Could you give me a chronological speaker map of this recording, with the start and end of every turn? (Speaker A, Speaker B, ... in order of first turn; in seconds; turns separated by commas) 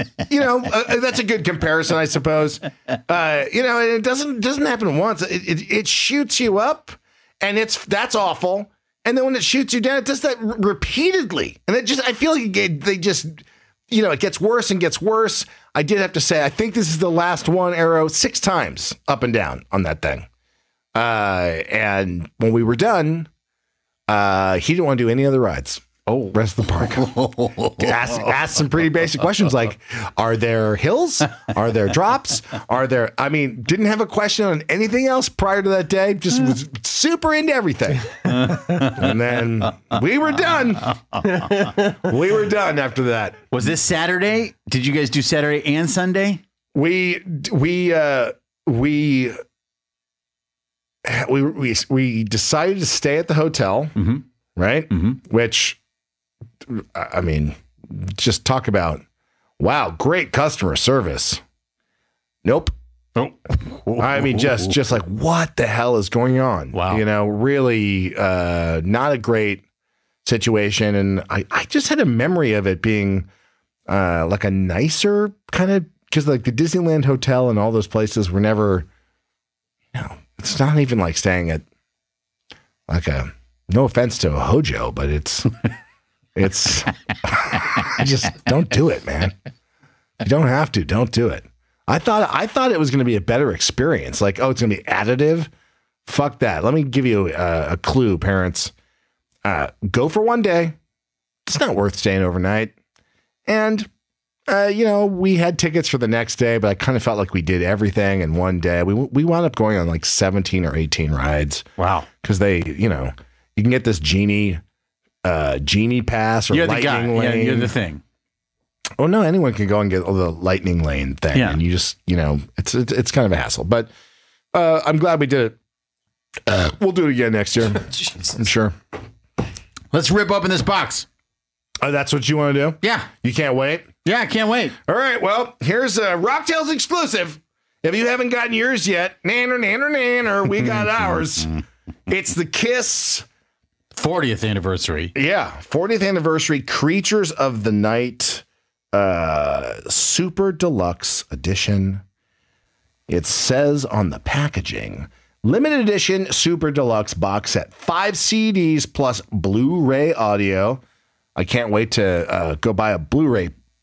Speaker A: 0.3-20.2, Speaker A: 20.9-23.3, Speaker A: 24.1-40.9, Speaker B: 26.1-26.4, Speaker B: 27.0-27.9, Speaker B: 38.3-38.9, Speaker A: 41.9-43.5, Speaker B: 43.5-46.4, Speaker A: 46.7-49.4, Speaker A: 51.0-54.0, Speaker B: 54.0-54.2, Speaker A: 54.5-55.8, Speaker B: 54.9-55.2, Speaker A: 56.6-59.0, Speaker A: 59.6-61.4, Speaker A: 62.4-62.7, Speaker B: 63.1-64.8, Speaker A: 64.0-69.6, Speaker B: 66.7-67.0, Speaker A: 70.2-73.3, Speaker A: 73.9-78.9, Speaker A: 79.9-81.6, Speaker A: 82.9-85.5, Speaker A: 86.3-89.3, Speaker A: 90.2-95.5, Speaker A: 96.0-98.7, Speaker A: 99.4-100.8, Speaker A: 101.4-102.7, Speaker A: 103.5-103.9, Speaker A: 104.5-111.7, Speaker B: 111.8-112.1, Speaker A: 112.2-114.6, Speaker A: 115.2-117.7, Speaker B: 116.5-118.0, Speaker A: 119.0-123.9, Speaker B: 121.3-121.6, Speaker A: 124.5-125.5, Speaker A: 126.5-128.7, Speaker B: 129.9-131.1, Speaker A: 131.8-133.9, Speaker B: 132.8-133.1, Speaker B: 134.0-134.8, Speaker A: 134.8-141.5, Speaker A: 142.1-143.2, Speaker B: 143.9-145.1, Speaker A: 145.1-152.0, Speaker A: 153.1-160.8, Speaker A: 161.3-163.5